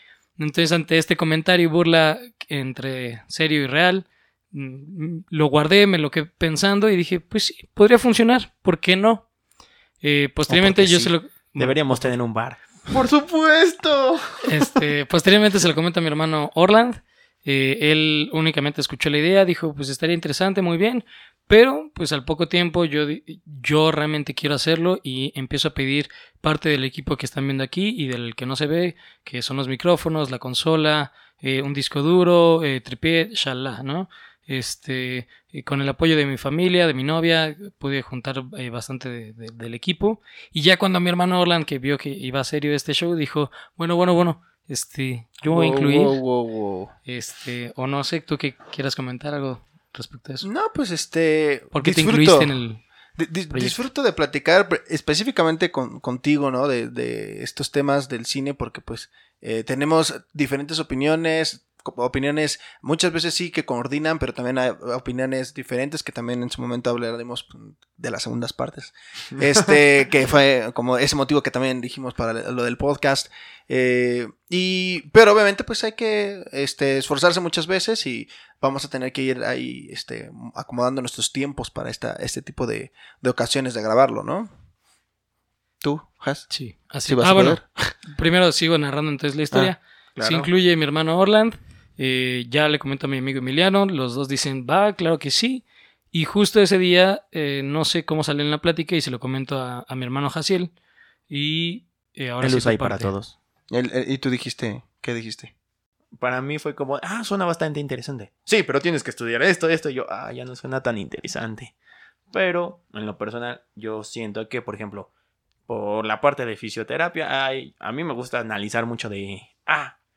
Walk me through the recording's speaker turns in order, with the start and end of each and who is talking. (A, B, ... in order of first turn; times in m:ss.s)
0:00.4-0:09.2 A
0:10.0-0:12.1 A
0:10.5-0:11.1 B
0:11.6-0:12.6 C
0:12.9-0:14.2 B
0:14.4-0:46.2 A
0:45.5-0:46.9 B
0:47.1-0:50.4 A
0:50.4-0:52.5 B
0:51.7-0:52.8 A
0:53.2-1:24.5 B
1:25.8-1:26.5 B
1:26.5-1:40.7 A
1:27.0-1:27.6 B
1:30.2-1:30.5 C
1:41.3-1:43.1 A
1:42.4-1:43.3 C
1:43.7-1:45.5 B
1:46.2-1:51.7 C
1:52.3-1:55.1 C
1:55.7-1:59.9 C